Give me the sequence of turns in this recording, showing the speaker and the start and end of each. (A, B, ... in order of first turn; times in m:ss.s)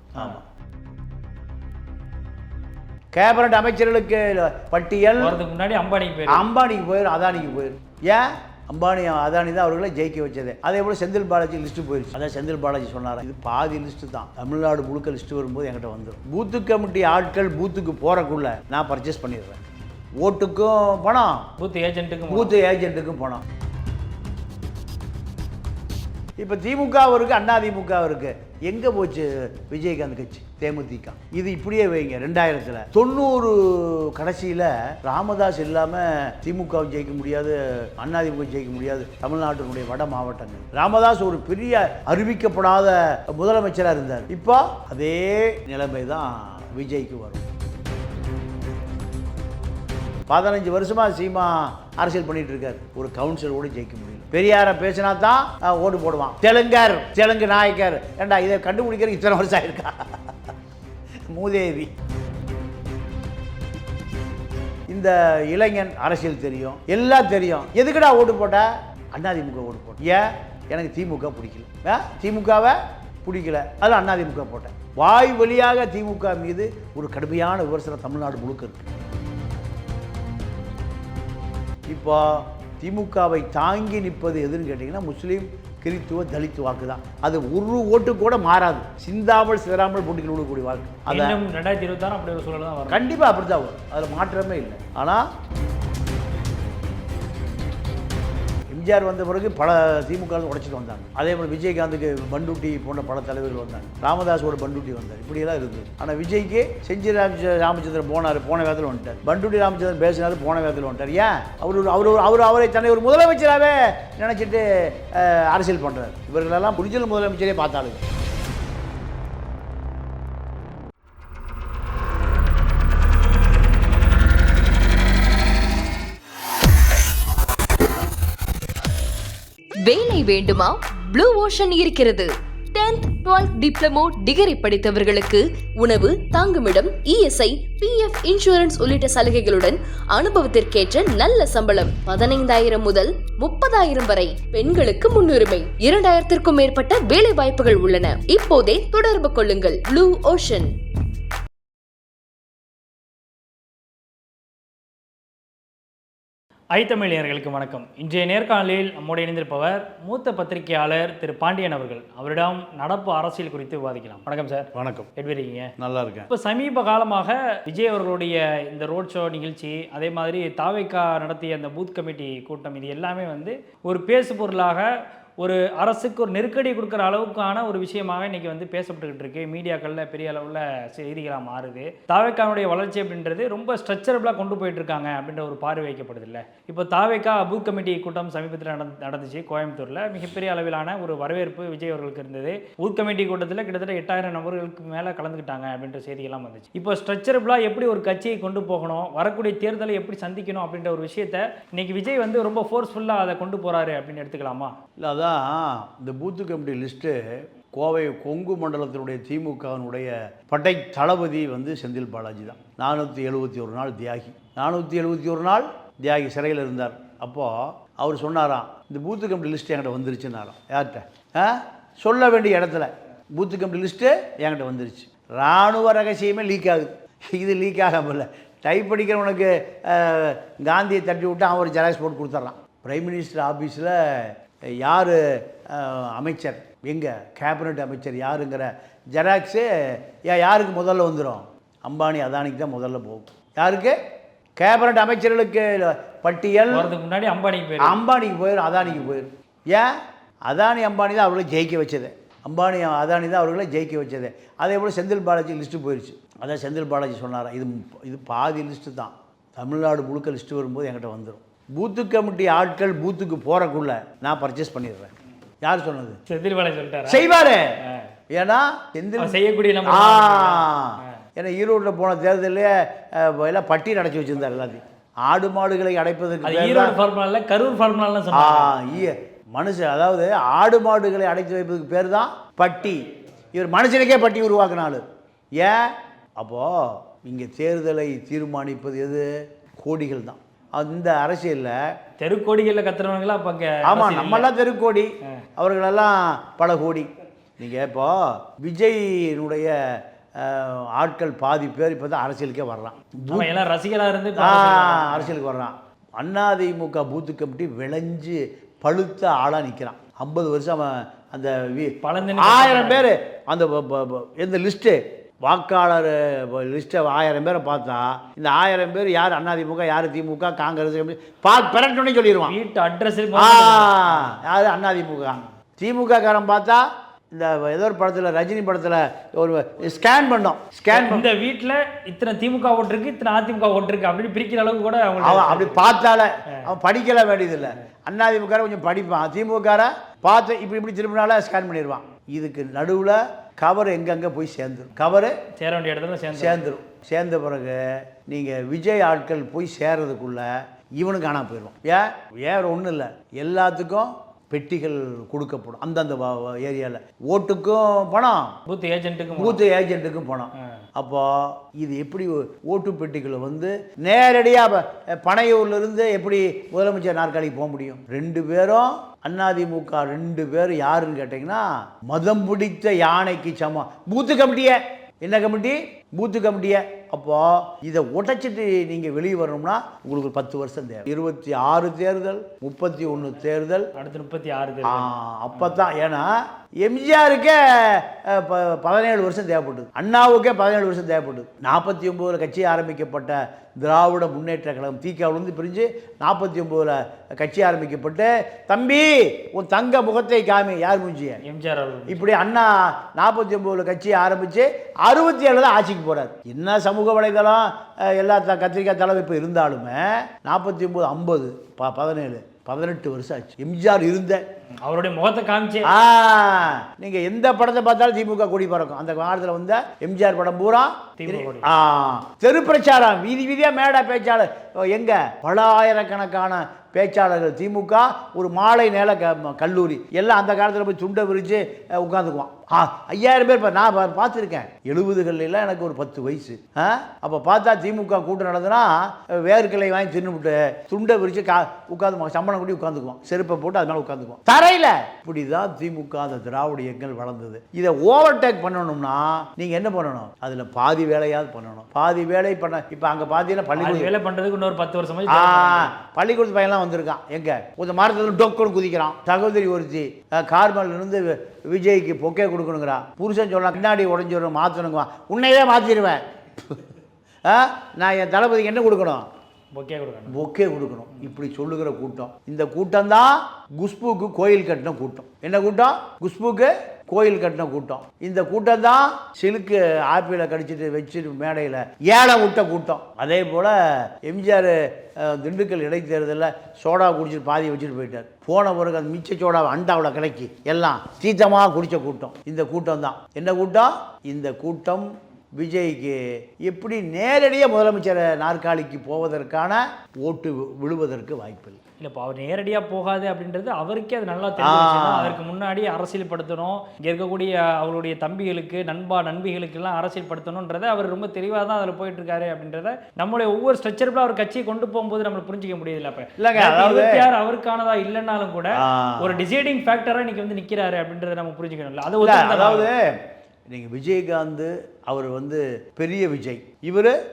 0:00.2-0:00.4 A
0:03.1-0:05.4 A
0:05.2-0:06.5 B
0:06.3-0:19.6 A
0:20.2-0:21.5 A
0:21.6-0:22.6 B
0:22.3-0:23.4 A
0:26.4-0:47.4 A
0:50.3-1:00.4 A
1:01.3-1:01.9 A
1:04.9-1:18.9 A
1:21.9-1:31.4 A
1:31.1-1:33.1 B
1:32.9-1:35.2 A
1:38.7-1:58.0 A
2:09.8-2:30.7 C
2:36.7-2:45.7 B
2:44.7-2:45.1 A
2:45.8-2:46.3 A
2:46.3-2:54.9 B
2:55.4-3:24.7 B
3:25.0-3:27.2 A
3:27.7-4:04.0 A
4:04.6-4:06.9 A
4:06.7-4:08.0 B
4:07.8-4:09.9 A
4:10.5-4:26.2 A
4:26.3-4:27.3 B
4:27.1-4:27.8 A
4:28.3-4:37.0 A
4:29.2-4:31.2 B
4:36.4-4:38.9 B
4:38.3-4:45.0 A
4:45.6-4:49.2 A
4:49.8-4:51.8 A
4:52.2-4:54.5 B
4:53.8-4:59.7 A
5:00.4-5:03.5 A
5:03.3-5:05.4 B
5:04.4-5:22.6 A
5:12.0-5:13.1 B
5:22.4-5:24.3 B
5:23.4-5:31.3 A
5:30.9-5:36.0 B
5:35.2-5:45.4 A
5:45.6-5:46.7 B
5:46.3-5:50.5 A
5:51.0-5:58.5 A
5:58.7-5:59.6 B
5:59.4-6:23.9 A
6:24.0-6:25.8 B
6:24.8-6:41.4 A
6:41.4-6:42.3 B
6:42.1-6:54.4 A
6:54.8-6:55.9 B
6:55.8-7:34.1 A
7:01.2-7:01.7 B
7:33.8-7:35.9 B
7:35.3-7:46.9 A
7:47.4-7:49.3 A
7:49.7-7:50.4 B
7:50.3-8:15.1 A
8:15.6-8:21.8 A
8:22.0-8:42.9 B
8:24.6-8:25.4 A
8:36.4-8:37.3 A
8:38.8-8:39.4 A
8:42.2-8:43.2 A
8:43.7-8:47.1 A